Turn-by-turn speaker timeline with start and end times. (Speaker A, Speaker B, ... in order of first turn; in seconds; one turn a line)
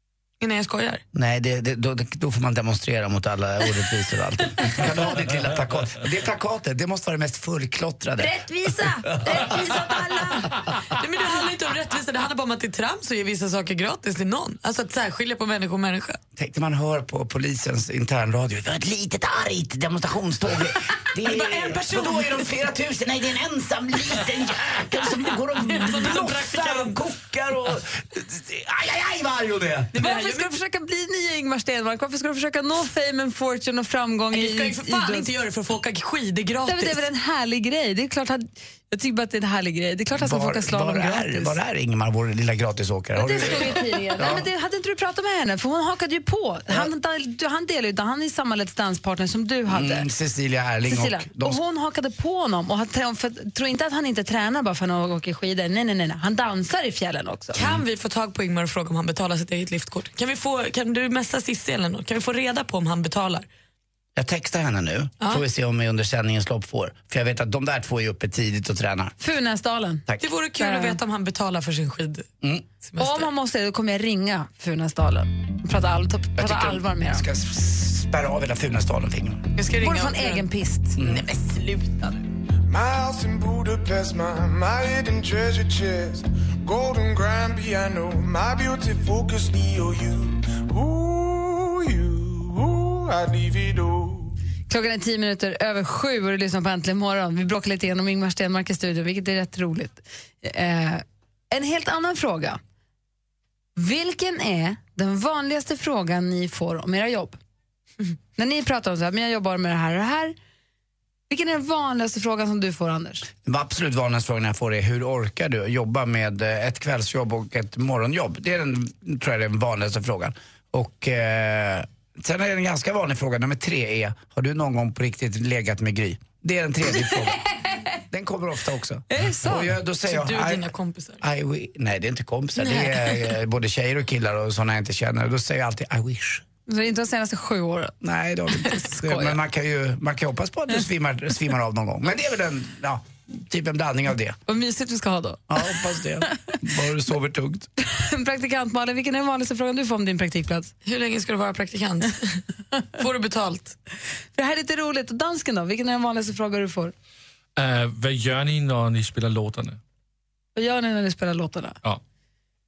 Speaker A: 0.4-1.0
Speaker B: 1.1-8.4
Speaker C: 8.2-10.7
Speaker B: 9.0-9.8
Speaker A: 10.9-16.2
Speaker B: 16.4-29.9
Speaker A: 21.1-22.5
Speaker A: 25.6-27.0
Speaker A: 29.9-30.5
Speaker C: 30.0-35.3
Speaker A: 34.3-37.0
Speaker C: 36.7-41.6
Speaker B: 40.1-44.5
Speaker C: 43.1-50.1
Speaker B: 49.7-51.6
Speaker C: 50.9-57.6
Speaker B: 57.5-57.8
Speaker A: 57.5-63.5
Speaker B: 64.2-69.1
Speaker C: 69.2-70.0
Speaker A: 70.2-72.3
Speaker C: 70.6-71.0
Speaker B: 72.4-72.7
Speaker A: 72.8-73.3
Speaker C: 73.0-77.2
Speaker B: 76.4-79.4
Speaker A: 79.5-80.5
Speaker C: 79.8-81.0
Speaker B: 81.0-81.3
Speaker A: 81.0-82.2
Speaker D: 82.7-94.3
Speaker C: 94.7-102.6
Speaker C: 103.8-107.4
Speaker C: 108.3-110.3
Speaker C: 111.3-113.3
Speaker B: 113.4-127.5
Speaker B: 128.1-130.7
Speaker C: 129.1-129.8
Speaker A: 130.1-131.2
Speaker B: 131.2-136.4
Speaker C: 136.7-137.9
Speaker B: 138.0-144.4
Speaker C: 144.5-145.7
Speaker B: 145.5-147.7
Speaker C: 147.8-150.7
Speaker A: 150.8-152.4
Speaker A: 153.0-153.8
Speaker C: 154.3-156.9
Speaker E: 157.6-159.8
Speaker C: 160.5-161.8